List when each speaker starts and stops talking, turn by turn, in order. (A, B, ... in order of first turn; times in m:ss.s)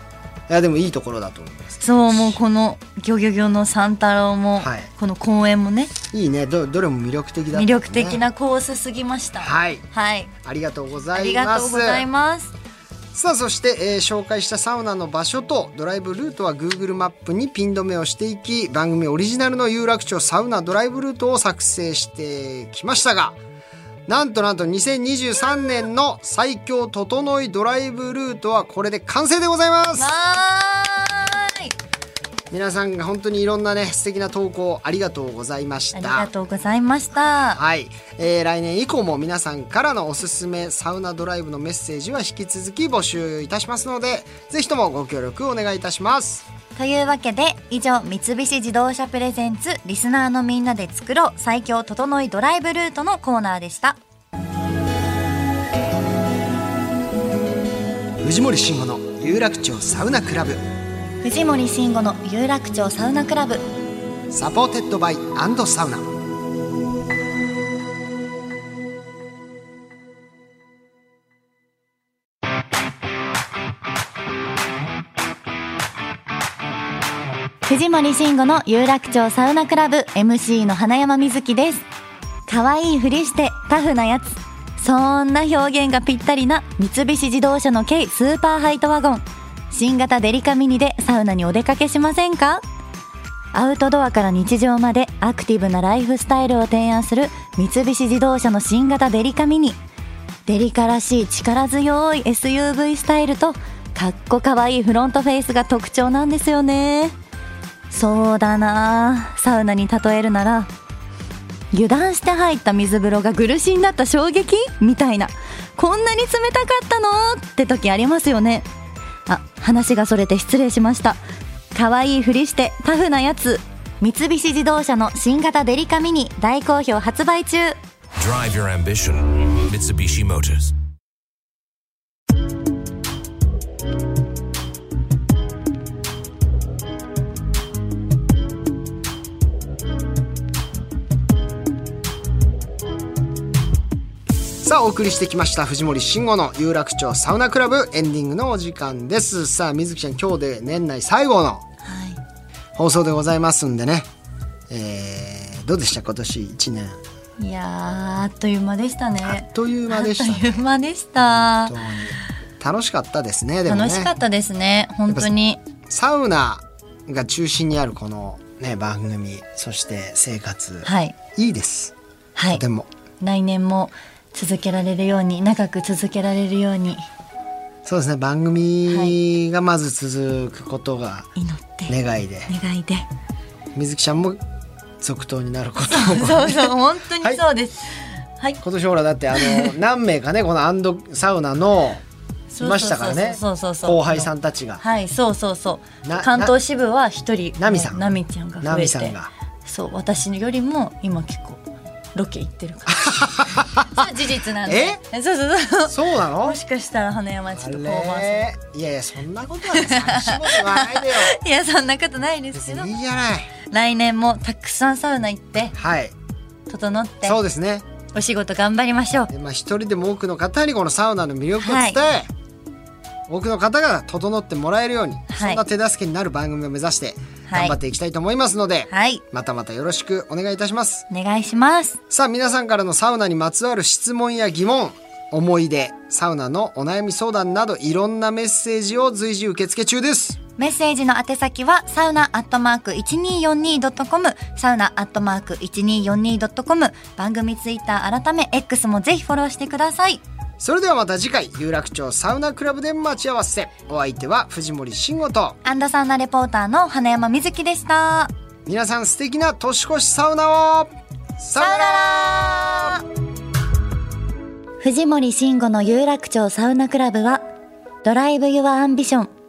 0:00.5-0:02.4 A
0:01.8-0:05.9 B
0:04.6-0:04.9 A
0:06.1-0:08.2 A
0:07.5-0:10.3 B
0:09.4-0:09.8 A
0:10.4-0:12.1 A
0:11.1-0:12.5 B
0:13.1-0:23.4 A
0:24.1-0:30.1 A
0:30.0-0:31.7 B
0:32.5-0:36.3 A
0:35.9-0:37.6 B
0:37.5-0:46.4 A
0:46.8-0:54.0 B
0:58.2-1:00.6 A
1:01.2-1:03.7 B
1:04.3-1:06.1 A
1:17.6-1:21.8 B
1:22.5-1:32.6 B
1:33.5-1:39.8 B
1:40.4-1:47.2 B
1:47.9-1:50.7 B
1:51.7-1:58.7 B
1:59.3-2:01.2 B
2:01.7-2:07.8 B
2:08.2-2:10.7 C
2:24.6-2:31.6 A
2:31.8-2:32.2 B
2:32.7-2:34.1 A
2:34.7-2:37.0 A
2:37.4-2:41.8 B
2:39.2-2:40.6 A
2:41.3-2:44.1 A
2:43.6-2:45.6 B
2:45.9-2:51.9 A
2:50.8-2:51.2 B
2:52.4-2:52.6 B
2:52.5-2:52.9 A
2:53.2-2:57.0 B
2:57.8-3:01.3 A
2:58.9-2:59.2 B
3:01.4-3:01.9 B
3:01.9-3:02.5 A
3:02.5-3:03.1 B
3:03.7-3:04.4 A
3:05.0-3:07.4 A
3:05.8-3:08.6 B
3:08.6-3:12.0 A
3:09.3-3:09.7 B
3:12.5-3:23.2 B
3:12.6-3:14.8 A
3:16.0-3:16.5 A
3:17.6-3:18.0 A
3:18.6-3:19.3 A
3:22.9-3:24.0 A
3:23.8-3:28.5 B
3:24.6-3:25.0 A
3:25.8-3:26.6 A
3:27.5-3:31.4 A
3:29.7-3:32.9 B
3:32.5-3:33.5 A
3:33.7-3:35.7 B
3:35.7-3:36.2 A
3:36.7-3:37.4 B
3:37.2-3:37.8 A
3:38.1-3:39.3 B
3:39.3-3:42.3 A
3:41.6-3:42.0 B
3:43.3-3:51.1 A
3:45.3-3:45.6 B
3:47.5-3:47.8 B
3:48.9-3:49.2 B
3:51.1-3:52.0 B
3:52.1-4:00.4 A
4:00.6-4:10.2 B
4:10.6-4:15.6 A
4:15.6-4:18.3 B
4:18.6-4:22.9 A
4:21.6-4:23.0 B
4:24.8-4:27.4 B
4:28.0-4:29.3 B